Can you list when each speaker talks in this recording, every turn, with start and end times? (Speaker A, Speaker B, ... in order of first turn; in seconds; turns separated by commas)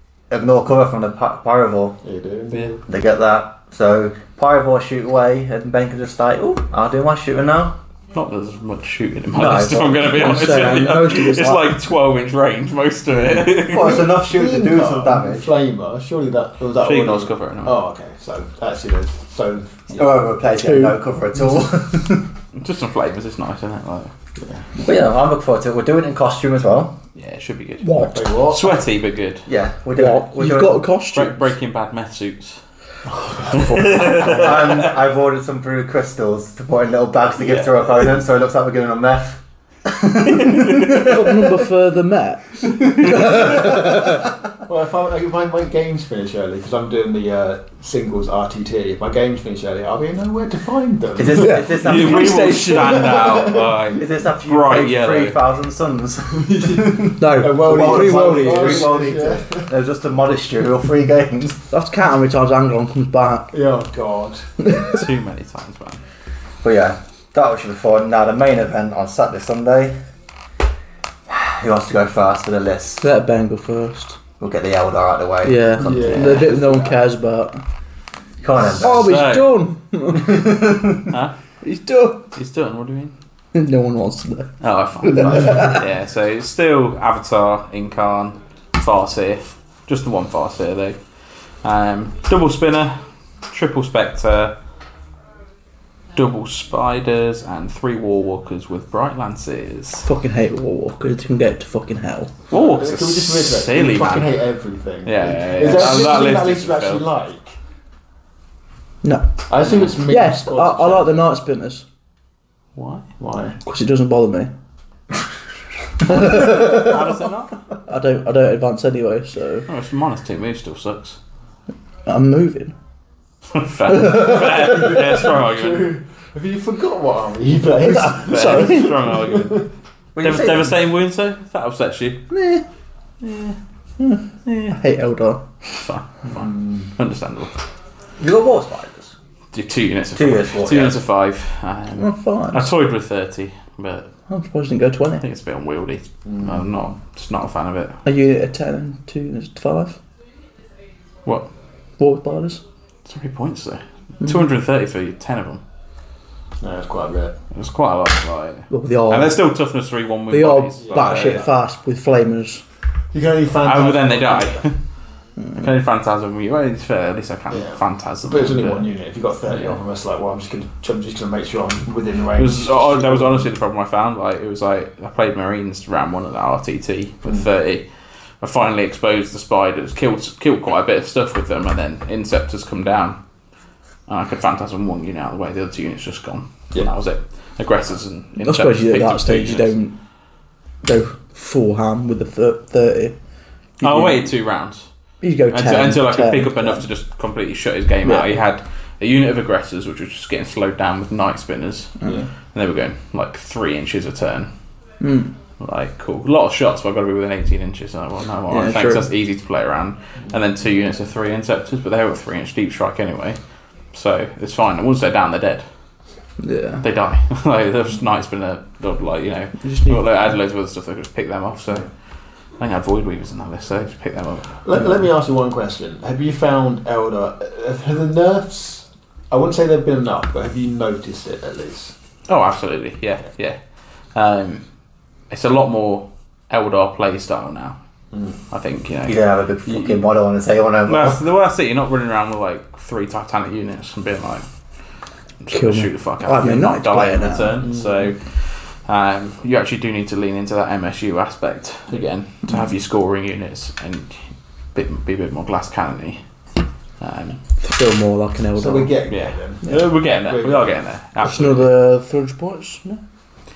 Speaker A: 0.3-2.0, Speaker B: 2.0-2.8, Speaker A: 2.9-7.7, Speaker C: 8.1-14.0, Speaker A: 9.3-10.5, Speaker D: 10.0-11.6, Speaker A: 13.5-15.5, Speaker B: 13.8-20.0, Speaker C: 16.8-17.8, Speaker A: 19.9-22.3, Speaker D: 20.5-21.0, Speaker C: 22.5-24.1, Speaker B: 24.4-24.7, Speaker A: 24.8-26.9, Speaker C: 27.1-29.4, Speaker D: 27.9-28.2, Speaker B: 27.9-28.8, Speaker A: 29.4-30.9, Speaker D: 29.9-31.5, Speaker C: 31.1-32.6, Speaker B: 33.1-34.2, Speaker C: 33.5-34.9, Speaker A: 34.0-41.1, Speaker C: 37.4-37.7, Speaker D: 40.7-44.3, Speaker B: 44.6-51.6, Speaker A: 51.2-52.7, Speaker D: 51.3-53.2, Speaker C: 51.6-55.4, Speaker A: 54.0-61.6, Speaker B: 56.3-59.7, Speaker D: 57.2-59.0, Speaker D: 61.7-63.5, Speaker B: 63.5-64.4, Speaker D: 64.6-65.0, Speaker C: 64.7-66.0, Speaker A: 66.6-69.9, Speaker A: 71.3-73.0, Speaker D: 73.0-74.2, Speaker A: 74.4-76.3, Speaker D: 75.4-77.6, Speaker B: 75.8-77.0, Speaker C: 76.1-76.4, Speaker A: 78.4-79.2, Speaker D: 78.7-80.7, Speaker C: 78.9-79.7, Speaker A: 80.2-80.9, Speaker C: 81.1-81.3, Speaker D: 81.6-82.2, Speaker C: 82.3-83.1, Speaker D: 83.5-84.5, Speaker C: 84.6-91.0, Speaker D: 85.0-85.8, Speaker B: 85.2-85.6, Speaker C: 91.6-93.0, Speaker C: 93.5-94.5, Speaker C: 96.1-100.1, Speaker D: 100.0-102.3, Speaker C: 102.5-104.3, Speaker B: 102.5-107.5, Speaker C: 105.0-107.0, Speaker D: 109.0-111.8, Speaker B: 109.5-111.1, Speaker C: 112.8-113.1, Speaker B: 113.2-113.6, Speaker D: 113.6-114.5, Speaker D: 116.0-117.0, Speaker C: 116.1-117.5, Speaker D: 117.9-119.7, Speaker C: 119.7-121.2, Speaker D: 122.0-122.7, Speaker C: 123.5-125.9, Speaker D: 123.9-124.3, Speaker B: 124.1-129.6, Speaker D: 127.8-128.9, Speaker C: 128.0-129.7, Speaker A: 130.2-130.8, Speaker C: 130.2-132.2, Speaker D: 132.3-132.6, Speaker C: 133.2-133.6, Speaker D: 134.0-135.4, Speaker C: 134.4-134.8, Speaker C: 135.8-137.6, Speaker B: 136.2-136.9, Speaker A: 138.2-139.1, Speaker C: 139.5-144.1, Speaker A: 140.1-141.0, Speaker D: 142.0-142.7, Speaker D: 144.3-145.2, Speaker C: 145.2-148.0, Speaker B: 146.2-146.6, Speaker D: 148.0-150.0, Speaker D: 152.0-152.6, Speaker C: 153.1-155.6, Speaker B: 156.6-157.3, Speaker C: 157.5-161.5, Speaker D: 158.7-159.4, Speaker D: 160.3-162.6, Speaker B: 160.8-161.5, Speaker B: 163.1-164.7, Speaker C: 163.6-164.8, Speaker C: 165.6-168.9, Speaker B: 167.5-173.5, Speaker C: 172.4-177.8, Speaker C: 178.4-183.2, Speaker C: 184.1-189.7, Speaker D: 188.4-189.9, Speaker D: 190.8-193.1, Speaker D: 193.8-194.3, Speaker C: 193.8-194.8, Speaker D: 195.2-196.8, Speaker C: 195.5-202.0, Speaker D: 198.0-198.3, Speaker B: 202.0-202.3, Speaker C: 202.5-204.5, Speaker D: 205.0-205.3, Speaker C: 205.6-213.4, Speaker D: 208.5-209.1, Speaker C: 213.9-215.6, Speaker D: 216.4-216.8, Speaker C: 216.8-221.9, Speaker D: 219.6-220.1, Speaker C: 222.6-224.6, Speaker B: 224.6-231.9, Speaker C: 232.3-233.6, Speaker C: 234.1-234.6, Speaker C: 235.3-237.8, Speaker C: 238.5-240.0, Speaker A: 239.1-241.2, Speaker C: 240.8-244.4, Speaker C: 245.4-254.2, Speaker D: 245.5-247.7, Speaker B: 247.6-248.1, Speaker C: 254.7-256.2, Speaker C: 257.0-257.4, Speaker D: 257.6-259.0, Speaker B: 258.6-260.7, Speaker C: 259.1-261.7, Speaker D: 261.2-263.0